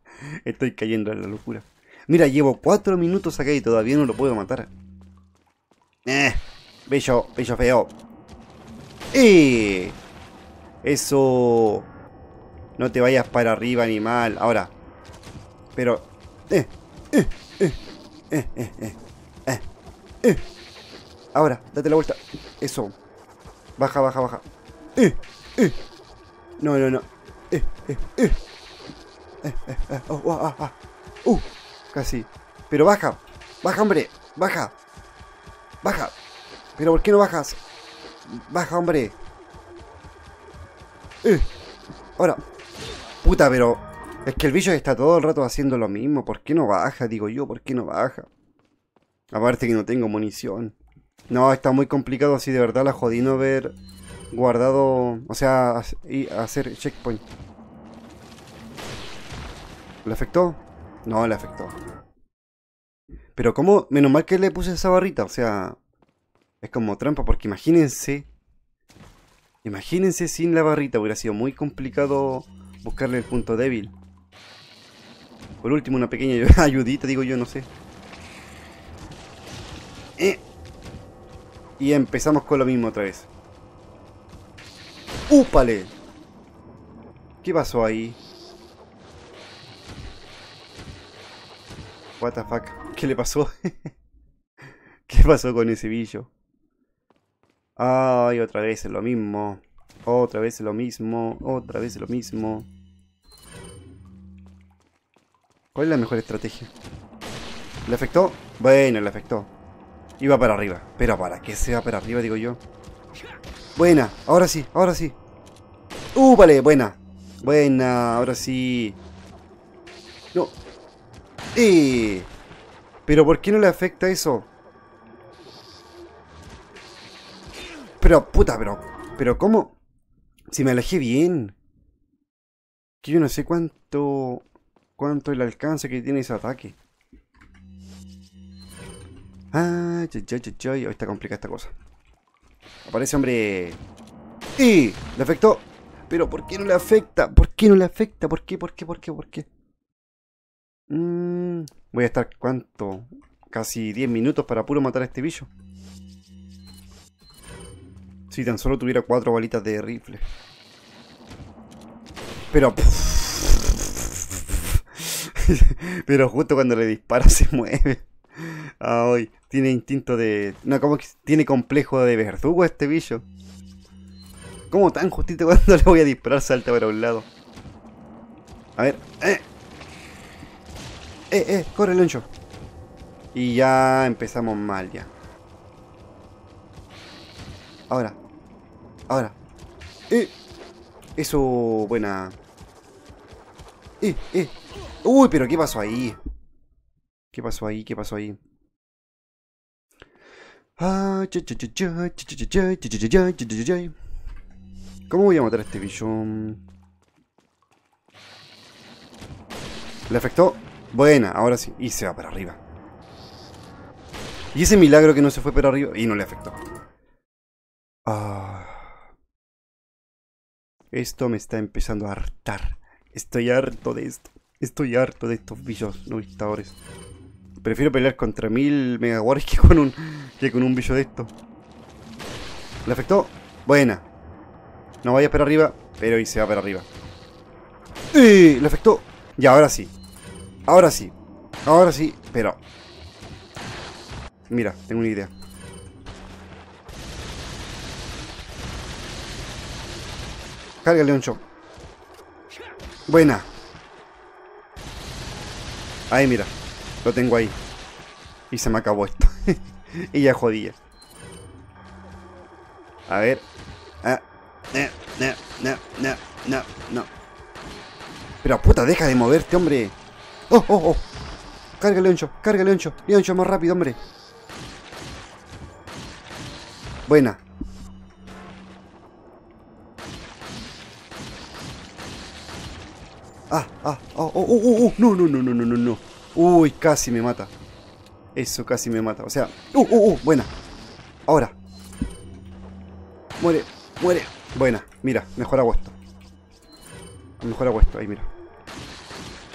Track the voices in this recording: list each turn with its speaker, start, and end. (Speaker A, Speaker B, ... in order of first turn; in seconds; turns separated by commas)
Speaker A: 0.4-4.7, Speaker A: 6.1-7.9, Speaker A: 9.1-10.0, Speaker A: 10.8-11.9, Speaker A: 12.8-14.7, Speaker A: 15.8-17.8, Speaker A: 18.3-19.6, Speaker A: 21.3-22.9, Speaker A: 23.8-24.4, Speaker A: 25.0-25.8, Speaker A: 26.6-28.4, Speaker A: 29.4-34.7, Speaker A: 35.8-36.1, Speaker A: 36.8-37.6, Speaker A: 38.3-39.2, Speaker A: 41.2-41.5, Speaker A: 43.2-48.3, Speaker A: 49.3-50.8, Speaker A: 51.3-53.7, Speaker A: 54.3-57.2, Speaker A: 60.0-61.7, Speaker A: 63.4-65.8, Speaker A: 66.6-68.3, Speaker A: 69.6-73.9, Speaker A: 75.6-77.7, Speaker A: 81.8-83.3, Speaker A: 85.3-85.9, Speaker A: 87.4-88.2, Speaker A: 92.2-93.9, Speaker A: 95.1-96.3, Speaker A: 97.8-102.7, Speaker A: 105.8-106.7, Speaker A: 107.9-109.5, Speaker A: 110.2-112.6, Speaker A: 113.8-115.2, Speaker A: 116.2-119.0, Speaker A: 121.5-122.3, Speaker A: 123.1-124.5, Speaker A: 128.0-129.8, Speaker A: 130.5-131.6, Speaker A: 133.0-134.5, Speaker A: 135.0-136.8, Speaker A: 139.5-141.7, Speaker A: 142.9-143.8, Speaker A: 144.6-149.5, Speaker A: 150.9-155.5, Speaker A: 158.3-160.2, Speaker A: 162.5-173.2, Speaker A: 174.7-177.3, Speaker A: 178.8-179.4, Speaker A: 181.3-182.3, Speaker A: 183.3-185.1, Speaker A: 187.9-188.2, Speaker A: 189.1-189.3, Speaker A: 191.2-192.4, Speaker A: 194.0-194.5, Speaker A: 195.0-196.2, Speaker A: 197.3-198.4, Speaker A: 200.8-203.9, Speaker A: 205.1-206.6, Speaker A: 210.1-212.6, Speaker A: 214.5-216.6, Speaker A: 218.1-218.9, Speaker A: 220.9-226.8, Speaker A: 227.6-231.3, Speaker A: 232.9-234.1, Speaker A: 235.0-236.9, Speaker A: 238.1-239.9, Speaker A: 240.7-241.1, Speaker A: 241.7-242.6, Speaker A: 244.5-245.3, Speaker A: 250.8-251.4, Speaker A: 253.1-253.5, Speaker A: 256.1-257.6, Speaker A: 258.5-260.8, Speaker A: 263.1-263.4, Speaker A: 264.7-267.1, Speaker A: 268.4-269.9, Speaker A: 270.5-271.0, Speaker A: 271.8-274.0, Speaker A: 277.1-277.4, Speaker A: 283.5-287.5, Speaker A: 288.4-290.5, Speaker A: 291.3-291.6, Speaker A: 293.4-296.0, Speaker A: 297.4-298.3